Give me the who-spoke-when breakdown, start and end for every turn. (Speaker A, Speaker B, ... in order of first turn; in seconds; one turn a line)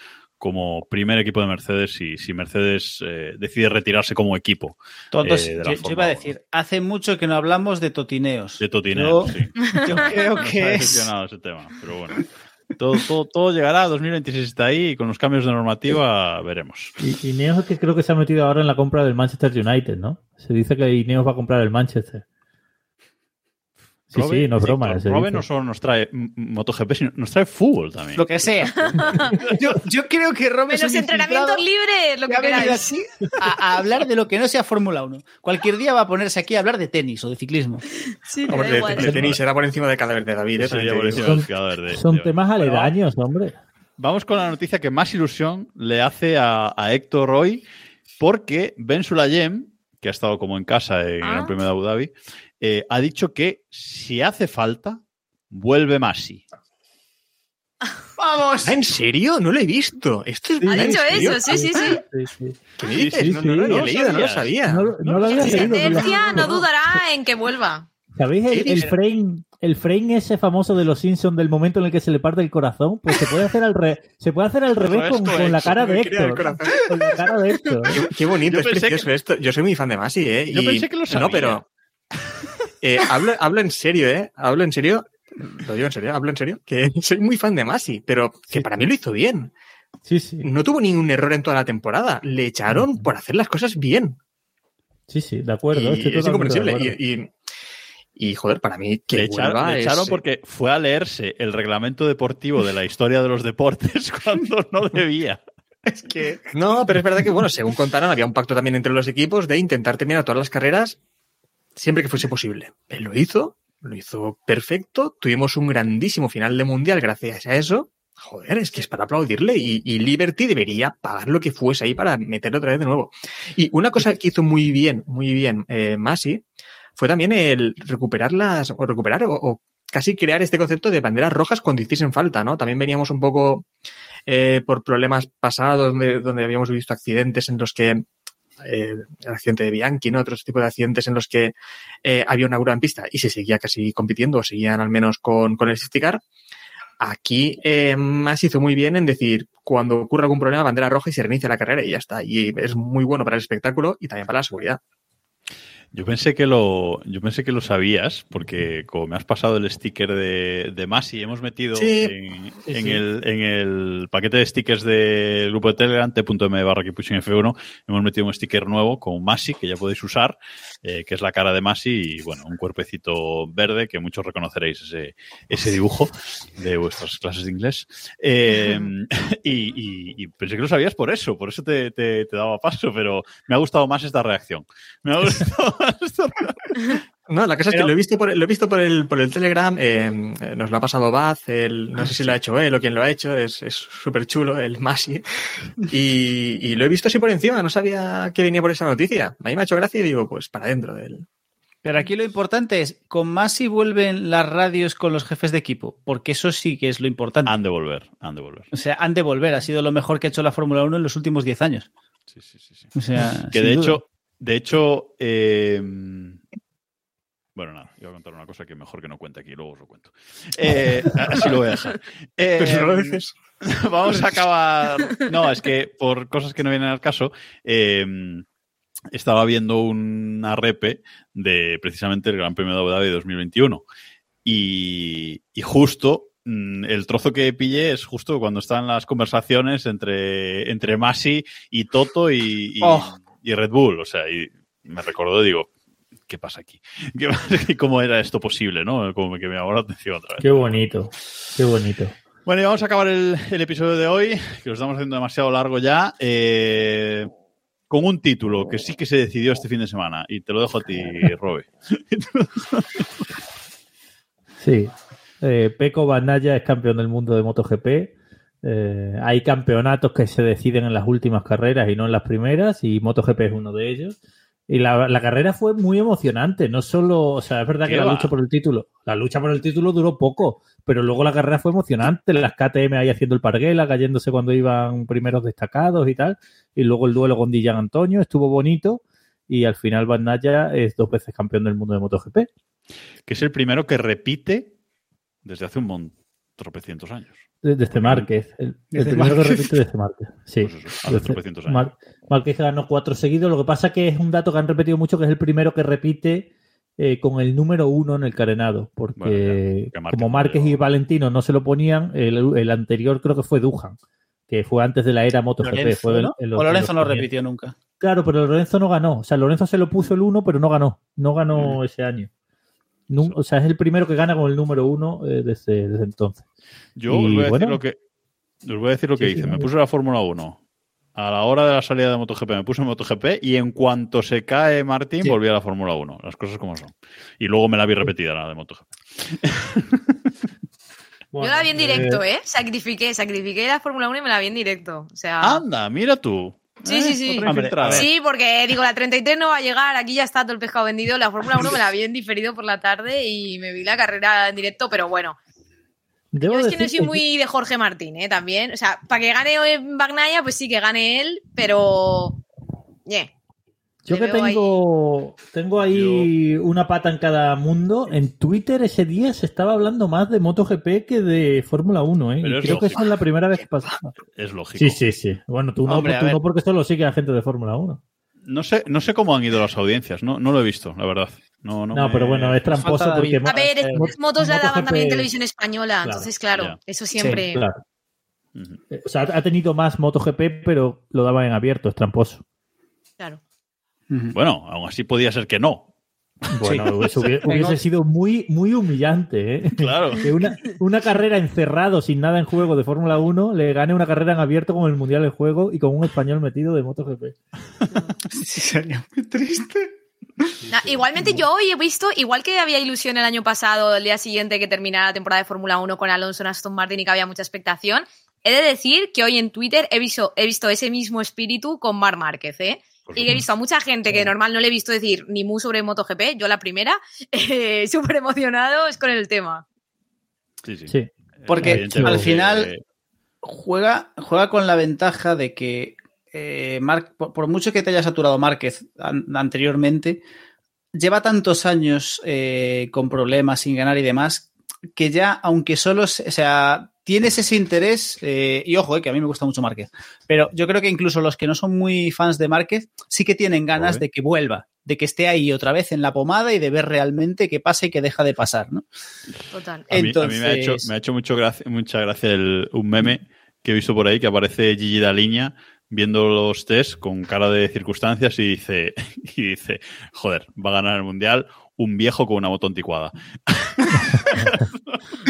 Speaker A: 0.4-6.3
Speaker B: 5.1-11.1
Speaker A: 8.6-16.9
Speaker C: 9.7-10.3
Speaker D: 17.0-22.2
Speaker A: 24.1-28.7
Speaker D: 24.1-25.4
Speaker B: 28.2-28.9
Speaker C: 28.8-29.3
Speaker B: 29.5-31.6
Speaker C: 30.7-32.9
Speaker B: 32.3-37.8
Speaker C: 38.3-39.1
Speaker E: 38.5-41.4
Speaker A: 38.9-39.4
Speaker A: 40.6-42.9
Speaker D: 41.2-43.6
Speaker A: 44.0-47.6
Speaker A: 48.2-56.4
Speaker C: 51.2-51.5
Speaker B: 58.2-58.8
Speaker E: 58.6-61.9
Speaker D: 60.6-63.9
Speaker C: 60.7-62.0
Speaker E: 62.8-66.5
Speaker A: 62.9-66.5
Speaker D: 64.7-66.7
Speaker C: 65.3-67.9
Speaker D: 68.2-78.0
Speaker E: 68.5-69.0
Speaker A: 74.8-75.8
Speaker E: 75.3-76.9
Speaker E: 77.9-81.7
Speaker A: 78.5-79.1
Speaker A: 80.5-81.6
Speaker E: 82.8-85.1
Speaker E: 85.6-89.5
Speaker D: 90.1-90.5
Speaker E: 90.4-94.2
Speaker D: 92.7-93.1
Speaker D: 95.1-97.0
Speaker E: 95.7-97.4
Speaker E: 98.2-100.2
Speaker A: 99.1-105.4
Speaker B: 106.0-106.4
Speaker E: 106.5-111.0
Speaker E: 111.8-126.4
Speaker E: 127.0-133.7
Speaker E: 134.3-138.1
Speaker E: 138.6-146.2
Speaker E: 147.0-154.8
Speaker A: 155.9-187.0
Speaker E: 161.8-162.1
Speaker D: 162.7-163.0
Speaker E: 187.3-195.2
Speaker E: 195.9-201.2
Speaker B: 201.8-207.5
Speaker A: 207.4-208.7
Speaker B: 208.7-211.9
Speaker A: 212.3-212.9
Speaker B: 212.9-214.0
Speaker A: 213.5-216.4
Speaker A: 217.6-228.4
Speaker E: 222.6-223.3
Speaker A: 229.1-233.8
Speaker A: 234.4-245.7
Speaker B: 242.8-243.1
Speaker A: 246.3-250.8
Speaker D: 250.4-252.2
Speaker A: 252.5-257.3
Speaker A: 257.9-263.1
Speaker D: 264.6-274.2
Speaker D: 274.7-292.5
Speaker A: 277.8-278.3
Speaker A: 293.3-294.7
Speaker A: 295.4-297.4
Speaker D: 297.6-314.0
Speaker A: 297.9-298.3
Speaker B: 298.9-299.5
Speaker A: 300.6-301.9
Speaker A: 309.2-310.8
Speaker D: 314.5-317.3
Speaker B: 315.6-317.8
Speaker D: 318.0-322.3
Speaker D: 323.1-326.4
Speaker A: 326.9-328.0
Speaker D: 327.1-327.8
Speaker A: 328.6-330.6
Speaker D: 329.2-329.7
Speaker A: 331.1-340.0
Speaker D: 341.3-342.2
Speaker C: 341.4-345.6
Speaker A: 345.4-348.1
Speaker C: 346.9-355.4
Speaker B: 347.4-348.1
Speaker D: 356.3-357.2
Speaker C: 356.4-362.4
Speaker D: 364.1-374.1
Speaker C: 364.1-364.8
Speaker A: 365.8-366.3
Speaker A: 372.4-373.0
Speaker E: 372.7-373.0
Speaker E: 373.5-374.0
Speaker A: 374.4-375.0
Speaker D: 374.8-378.0
Speaker B: 375.9-376.4
Speaker A: 378.5-382.6
Speaker D: 381.9-385.3
Speaker B: 382.7-384.1
Speaker C: 383.4-387.6
Speaker D: 386.0-386.3
Speaker B: 387.2-387.4
Speaker D: 387.3-387.8
Speaker D: 388.9-392.4
Speaker B: 394.1-394.4
Speaker A: 394.3-395.9
Speaker A: 396.5-397.7
Speaker D: 396.5-407.4
Speaker B: 397.5-397.8
Speaker A: 399.8-400.3
Speaker B: 408.3-410.5
Speaker C: 410.7-429.6
Speaker A: 423.1-423.4
Speaker A: 430.6-432.8
Speaker B: 431.5-432.7
Speaker D: 431.6-432.3
Speaker B: 433.4-440.2
Speaker B: 440.9-458.9
Speaker A: 453.8-454.0
Speaker C: 459.5-459.9
Speaker B: 459.9-460.9
Speaker A: 459.9-474.6
Speaker D: 474.1-474.6